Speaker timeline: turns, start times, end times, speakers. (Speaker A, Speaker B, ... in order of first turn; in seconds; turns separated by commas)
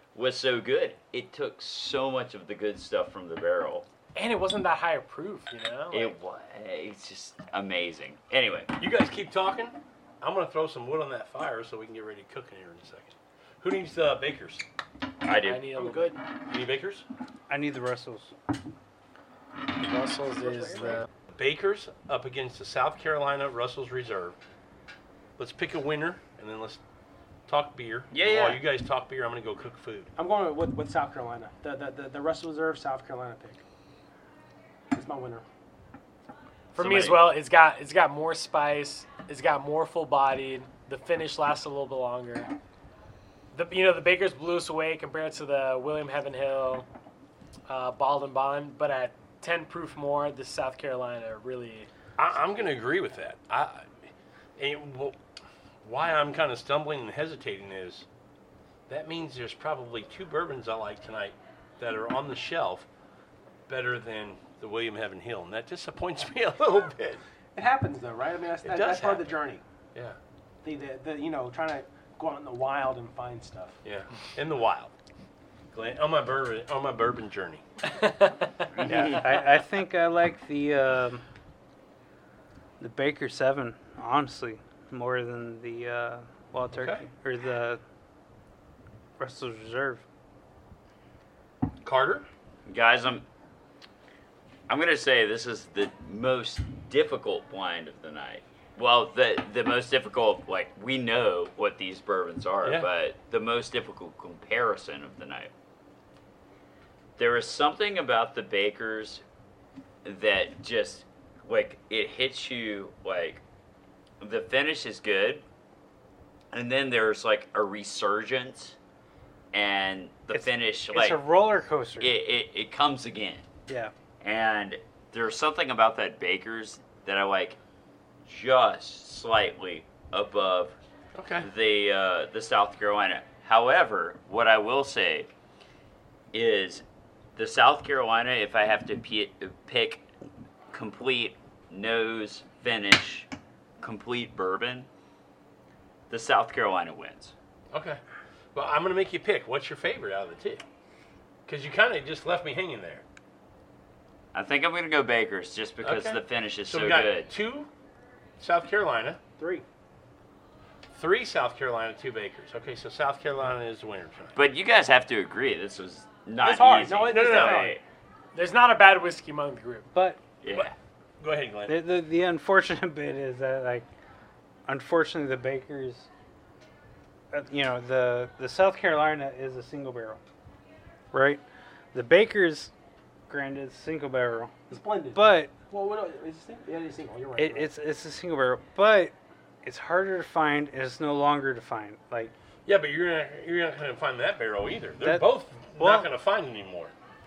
Speaker A: 0.1-3.9, Speaker B: 4.2-6.2, Speaker A: 5.9-8.7, Speaker C: 8.8-14.7, Speaker A: 15.2-15.7, Speaker B: 15.4-16.2, Speaker D: 15.8-16.2, Speaker C: 16.5-17.1, Speaker E: 17.5-18.3, Speaker B: 19.8-21.1, Speaker D: 20.2-21.0, Speaker C: 21.3-24.4, Speaker C: 25.4-26.8, Speaker C: 27.5-30.1, Speaker A: 28.1-28.6, Speaker D: 30.2-33.6, Speaker D: 34.9-35.5, Speaker A: 36.7-37.3, Speaker B: 36.8-42.5, Speaker B: 43.5-46.9, Speaker B: 47.7-51.9, Speaker C: 52.2-55.2, Speaker C: 55.8-58.1, Speaker C: 58.9-62.9, Speaker C: 63.7-67.2, Speaker D: 67.5-69.6, Speaker C: 68.6-69.4, Speaker D: 70.6-73.8, Speaker C: 73.8-74.9, Speaker C: 75.7-77.6, Speaker B: 77.9-78.7, Speaker E: 78.8-81.2, Speaker A: 78.8-79.2, Speaker E: 82.8-87.8, Speaker C: 86.8-87.0, Speaker E: 89.2-90.0, Speaker C: 91.8-92.3, Speaker A: 92.7-93.2, Speaker A: 94.7-105.5, Speaker A: 107.2-109.2, Speaker A: 110.0-113.4, Speaker A: 114.2-115.4, Speaker A: 116.5-118.8, Speaker A: 119.5-121.2, Speaker E: 120.3-122.1, Speaker A: 122.0-123.5, Speaker A: 124.2-127.6, Speaker A: 128.3-130.8, Speaker C: 131.2-131.5, Speaker A: 131.4-135.3, Speaker A: 136.3-136.8, Speaker A: 137.4-140.0, Speaker A: 140.7-143.3, Speaker A: 143.8-144.9, Speaker A: 146.1-147.3, Speaker C: 147.7-148.0, Speaker C: 148.5-150.6, Speaker C: 151.5-153.1, Speaker A: 154.3-157.3, Speaker C: 155.8-157.7, Speaker C: 158.4-159.2, Speaker D: 159.4-159.7, Speaker C: 160.9-164.4, Speaker A: 164.4-167.8, Speaker D: 166.4-167.8, Speaker C: 167.1-167.7, Speaker B: 168.3-169.9, Speaker E: 169.9-170.2, Speaker A: 170.4-170.7, Speaker C: 170.5-171.8, Speaker E: 171.7-173.9, Speaker E: 174.7-176.1, Speaker E: 177.3-180.2, Speaker E: 181.1-181.4, Speaker E: 181.9-182.7, Speaker E: 183.3-185.5, Speaker D: 184.7-187.7, Speaker E: 187.4-192.3, Speaker C: 192.7-196.9, Speaker E: 195.0-196.1